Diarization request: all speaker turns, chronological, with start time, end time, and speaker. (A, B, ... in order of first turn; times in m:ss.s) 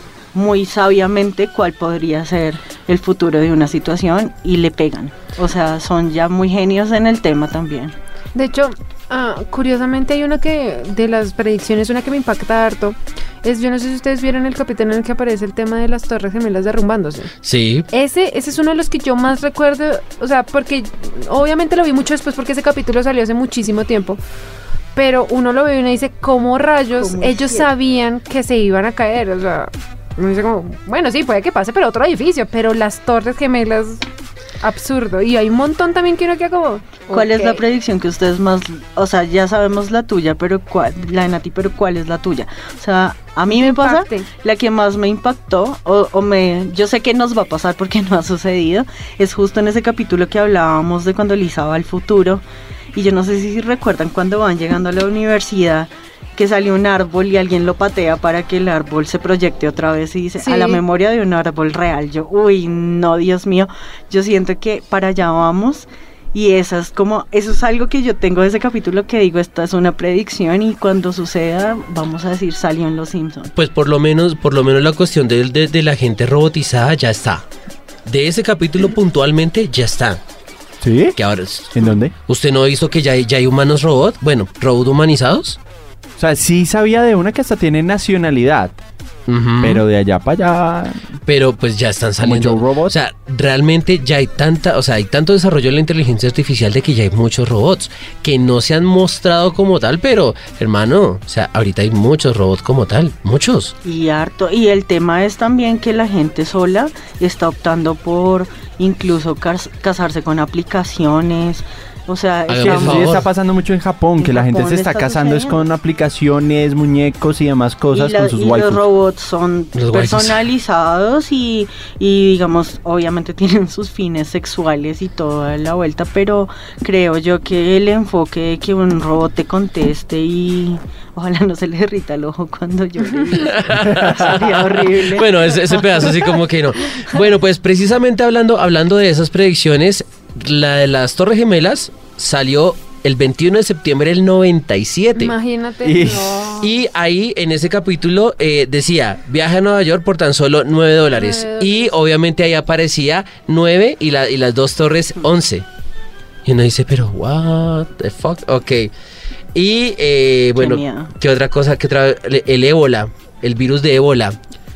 0:00.3-0:08.0 A
0:08.4-0:17.3 B
0:17.4-0:17.9 C
0:17.9-0:24.2 B
0:25.0-0:34.0 B
0:27.0-0:27.7 A
0:34.6-0:37.6 B
0:37.1-0:52.4 A
0:43.5-0:44.3 B
0:52.9-1:13.5 A
1:00.4-1:00.8 B
1:13.6-1:17.4 C
1:18.1-1:20.2 C
1:20.8-1:21.2 D
1:21.2-1:25.6 C
1:21.8-1:22.1 D
1:26.2-1:28.8 D
1:29.3-1:29.8 C
1:29.6-1:31.0 D
1:31.3-1:43.8 C
1:32.2-1:33.0 D
1:43.8-1:53.2 A
1:52.5-1:53.3 C
1:52.6-1:58.8 D
1:54.2-1:55.6 A
1:57.9-2:16.2 A
1:59.8-2:00.5 C
2:13.4-2:25.4 C
2:13.8-2:14.1 D
2:25.2-2:26.7 B
2:25.8-2:26.5 D
2:26.6-2:35.6 C
2:31.1-2:31.9 B
2:36.4-2:38.9 C
2:39.6-2:44.4 C
2:40.6-2:41.1 A